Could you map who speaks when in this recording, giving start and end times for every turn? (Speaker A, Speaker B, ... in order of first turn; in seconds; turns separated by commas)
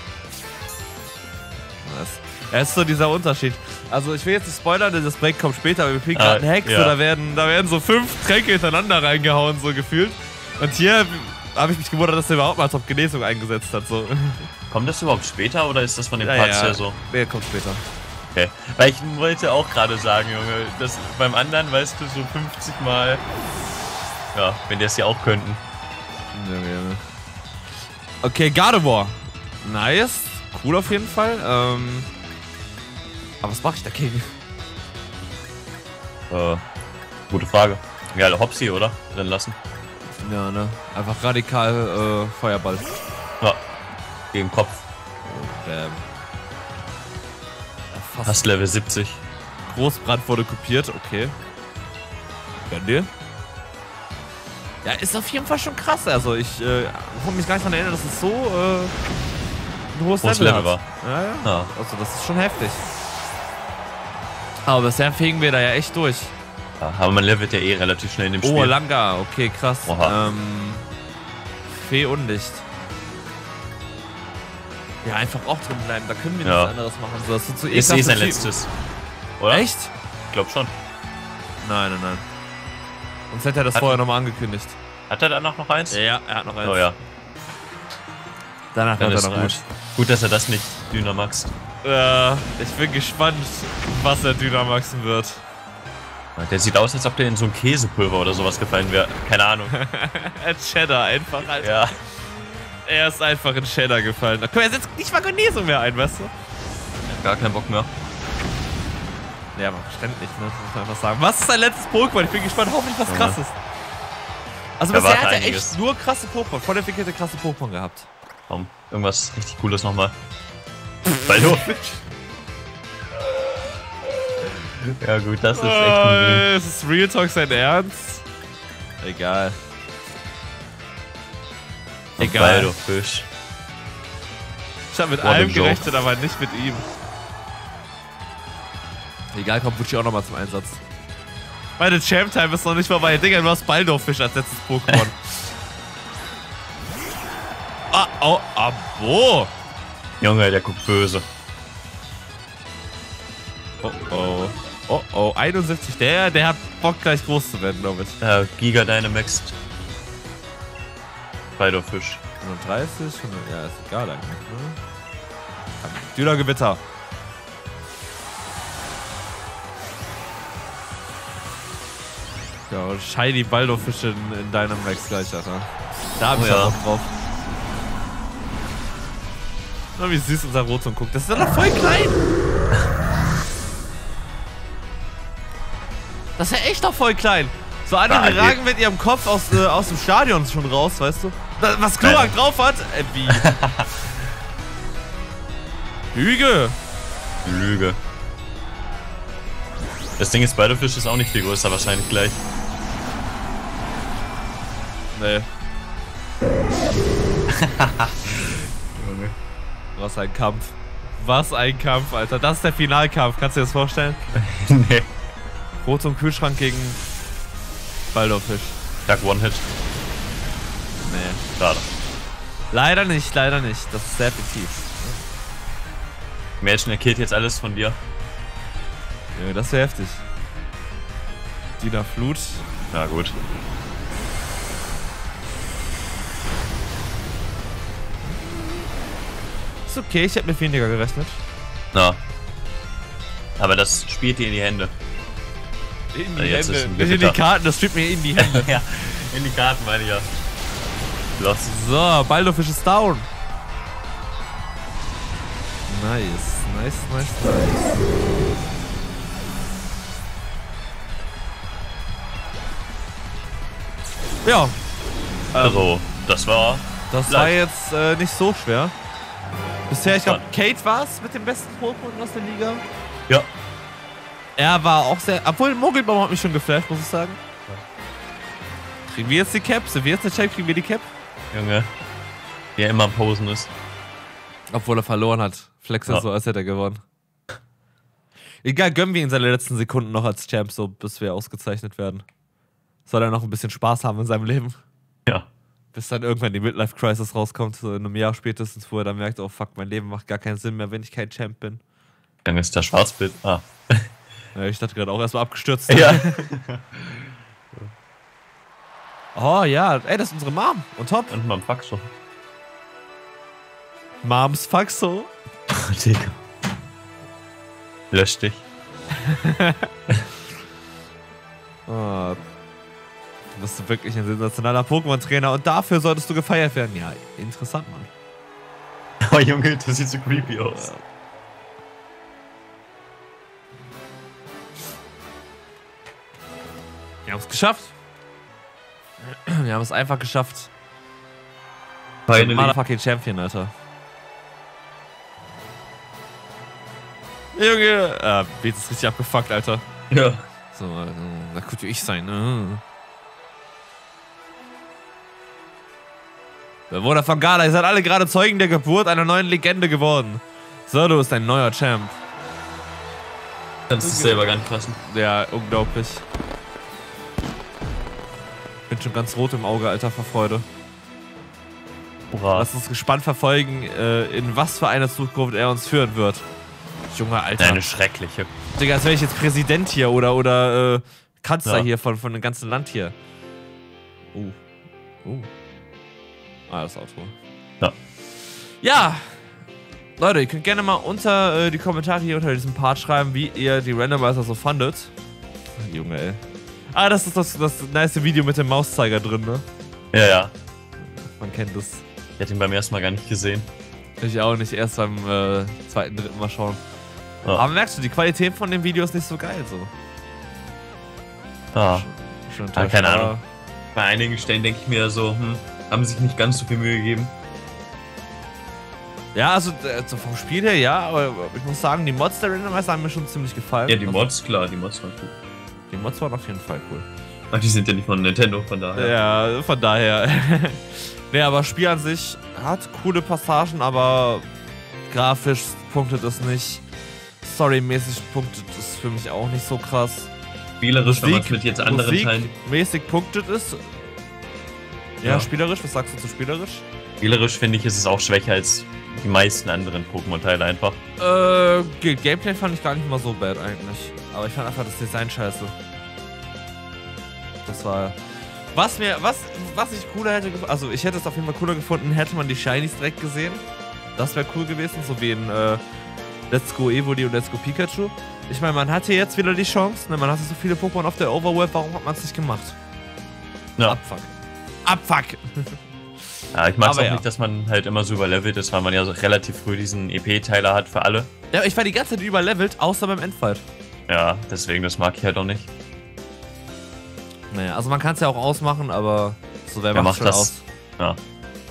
Speaker A: 1.8-14.5, Speaker B: 6.1-6.9, Speaker B: 14.7-17.0, Speaker A: 16.2-17.8, Speaker B: 18.3-23.2, Speaker B: 24.3-25.6, Speaker A: 26.3-27.0, Speaker A: 28.2-32.1, Speaker A: 33.4-34.3, Speaker B: 36.3-36.6, Speaker B: 37.3-39.6, Speaker A: 40.2-43.0, Speaker B: 44.3-44.8, Speaker A: 45.2-46.0, Speaker A: 47.9-48.4, Speaker B: 48.2-49.2, Speaker A: 49.7-51.3, Speaker A: 52.7-53.1, Speaker A: 54.8-58.9, Speaker A: 59.9-62.8, Speaker B: 60.2-60.8, Speaker B: 61.4-61.7, Speaker A: 64.7-66.3, Speaker B: 66.8-68.7, Speaker A: 68.4-70.9, Speaker B: 69.8-70.1, Speaker A: 71.7-72.7, Speaker A: 75.0-78.5, Speaker B: 76.4-76.7, Speaker B: 77.7-78.7, Speaker B: 79.4-79.7, Speaker A: 79.5-79.9, Speaker B: 80.3-80.7, Speaker A: 81.6-82.2, Speaker A: 83.3-84.8, Speaker B: 83.7-84.0, Speaker B: 85.1-86.0, Speaker A: 85.9-86.9, Speaker B: 86.6-87.0, Speaker A: 88.7-89.6, Speaker B: 89.0-91.5, Speaker A: 91.8-95.4, Speaker B: 96.3-99.7, Speaker A: 99.7-101.8, Speaker B: 101.6-101.9, Speaker A: 102.8-106.3, Speaker B: 107.1-107.9, Speaker A: 109.5-113.6, Speaker B: 113.1-113.4, Speaker A: 114.8-118.1, Speaker B: 114.9-115.8, Speaker B: 118.5-120.1, Speaker A: 121.1-122.0, Speaker B: 121.2-121.8, Speaker B: 125.0-126.5, Speaker A: 125.5-128.2, Speaker A: 129.0-129.6, Speaker A: 132.2-132.7, Speaker B: 132.2-133.3, Speaker A: 134.9-136.9, Speaker B: 135.2-135.9, Speaker A: 139.3-140.8, Speaker A: 141.8-145.5, Speaker A: 147.9-149.5, Speaker B: 150.2-151.2, Speaker A: 153.8-158.2, Speaker B: 158.2-159.5, Speaker B: 161.6-162.2, Speaker A: 162.4-164.8, Speaker A: 165.8-166.8, Speaker A: 172.7-177.1, Speaker B: 176.3-176.8, Speaker A: 179.9-182.2, Speaker A: 186.4-193.5, Speaker B: 188.1-188.6, Speaker B: 192.0-192.3, Speaker B: 193.3-193.9, Speaker A: 196.1-196.8, Speaker B: 197.4-198.0, Speaker B: 200.2-202.4, Speaker A: 205.1-205.5, Speaker B: 207.6-209.3, Speaker A: 210.0-214.2, Speaker B: 214.3-215.1, Speaker A: 215.8-217.0, Speaker A: 218.1-218.8, Speaker B: 219.1-219.7, Speaker A: 221.0-221.4, Speaker B: 221.6-221.9, Speaker A: 222.7-225.2, Speaker B: 226.6-228.0, Speaker A: 229.3-230.2, Speaker A: 231.8-232.7, Speaker B: 232.9-233.3, Speaker A: 238.3-238.8, Speaker A: 239.9-241.4, Speaker B: 241.9-242.2, Speaker B: 243.6-244.9, Speaker A: 246.1-248.7, Speaker B: 246.3-247.4, Speaker B: 248.4-250.3, Speaker B: 251.4-251.7, Speaker A: 251.7-253.3, Speaker A: 255.9-258.0, Speaker A: 264.4-264.8, Speaker A: 265.5-265.9, Speaker B: 265.6-267.5, Speaker A: 267.1-268.9, Speaker A: 269.9-272.8, Speaker B: 270.1-270.4, Speaker A: 274.6-277.4, Speaker A: 279.1-281.1, Speaker B: 281.5-281.9, Speaker B: 282.8-283.7, Speaker A: 284.7-287.0, Speaker A: 288.6-292.2, Speaker A: 293.1-294.8, Speaker A: 295.9-301.8, Speaker B: 302.4-304.1, Speaker A: 304.5-306.3, Speaker B: 305.9-307.8, Speaker A: 309.3-311.3, Speaker B: 311.3-312.1, Speaker A: 314.2-315.3, Speaker B: 315.7-316.4, Speaker B: 318.1-318.6, Speaker A: 319.2-319.8, Speaker A: 321.9-322.4, Speaker A: 323.6-328.1, Speaker B: 329.2-330.9, Speaker A: 330.7-331.0, Speaker A: 337.2-337.9, Speaker A: 339.2-340.7, Speaker B: 342.3-342.8, Speaker A: 342.3-343.7, Speaker A: 347.5-349.8, Speaker B: 350.1-350.4, Speaker A: 350.7-352.8, Speaker A: 356.9-362.2, Speaker B: 363.9-365.0, Speaker A: 364.0-364.4, Speaker A: 365.0-366.2, Speaker A: 368.9-370.6, Speaker B: 372.3-372.7, Speaker A: 372.5-376.4, Speaker A: 377.1-377.9, Speaker B: 377.6-378.5, Speaker A: 378.8-383.1, Speaker A: 384.3-384.6, Speaker A: 385.2-385.5, Speaker A: 386.7-387.3, Speaker A: 388.8-389.5, Speaker A: 390.2-395.1, Speaker A: 395.8-396.4, Speaker A: 396.9-399.6, Speaker B: 400.1-400.5, Speaker A: 401.4-402.0, Speaker B: 402.4-403.7, Speaker A: 404.2-406.8, Speaker A: 407.5-409.9, Speaker B: 411.7-412.1, Speaker A: 411.9-413.4, Speaker B: 412.7-413.3, Speaker B: 413.9-417.3, Speaker A: 419.3-424.3, Speaker B: 423.9-425.3, Speaker A: 425.9-427.1, Speaker B: 427.5-429.1, Speaker A: 428.9-434.5, Speaker A: 435.1-436.8, Speaker A: 437.4-440.3, Speaker B: 440.8-442.5, Speaker A: 441.0-443.9, Speaker A: 445.2-446.8, Speaker B: 445.2-445.5, Speaker B: 447.2-451.0, Speaker A: 451.2-455.7, Speaker A: 457.6-458.2, Speaker A: 458.7-463.6, Speaker A: 464.2-465.8, Speaker A: 466.5-472.8, Speaker A: 473.9-475.8, Speaker B: 476.5-481.3, Speaker A: 476.8-477.2, Speaker A: 481.5-483.6, Speaker B: 484.1-485.7, Speaker A: 487.5-490.6, Speaker B: 489.9-491.2